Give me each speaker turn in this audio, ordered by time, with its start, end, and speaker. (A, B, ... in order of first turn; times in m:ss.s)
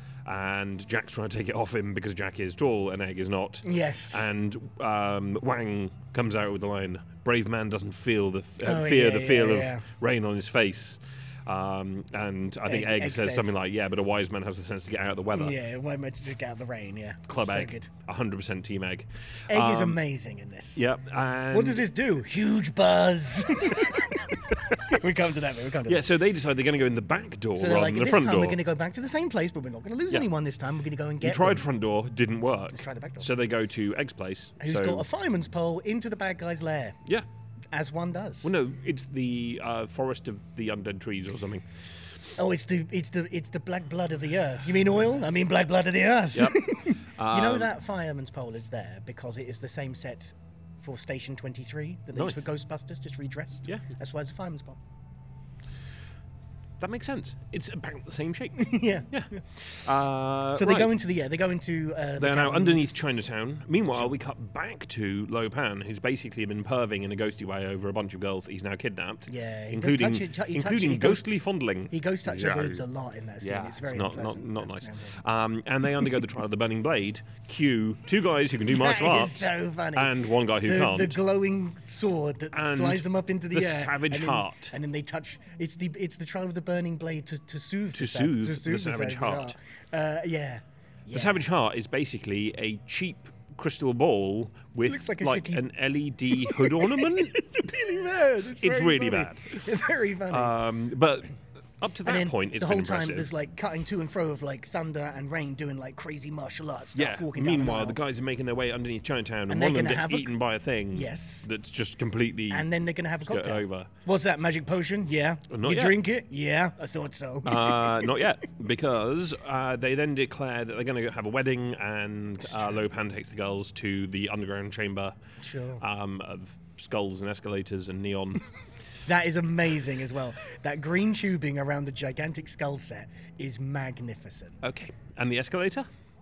0:00.2-0:15.6 A
0:03.6-0:04.3 B
0:08.6-0:09.8 B
0:12.6-0:13.5 B
0:15.3-0:17.9 B
0:17.3-0:20.0 A
0:19.5-0:20.8 B
0:20.8-0:21.8 A
0:21.5-0:26.0 B
0:25.9-0:28.6 A
0:27.6-0:31.7 B
0:31.2-0:35.0 A
0:32.7-0:33.3 B
0:34.6-0:37.0 B
0:37.7-0:38.5 B
0:38.4-0:41.6 A
0:42.4-0:54.8 B
0:46.3-0:47.7 A
0:52.1-0:52.5 A
0:56.8-1:00.9 A
0:58.6-0:59.4 B
1:00.6-1:02.9 B
1:02.2-1:12.8 A
1:09.3-1:11.2 B
1:11.9-1:15.2 B
1:13.4-1:21.2 A
1:18.7-1:20.1 B
1:20.6-1:31.4 B
1:22.5-1:24.7 A
1:27.9-1:29.5 A
1:31.1-1:37.4 A
1:34.8-1:35.6 B
1:36.3-1:40.5 B
1:38.6-1:39.8 A
1:40.3-1:43.3 A
1:42.0-1:48.0 B
1:46.9-1:52.7 A
1:49.5-1:50.3 B
1:50.9-1:51.5 B
1:52.5-1:58.1 B
1:53.2-1:53.9 A
1:55.5-1:56.0 A
1:57.4-2:05.1 A
2:02.5-2:02.8 B
2:05.4-2:05.8 B
2:05.8-2:08.4 A
2:09.0-2:14.6 B
2:14.6-2:15.9 A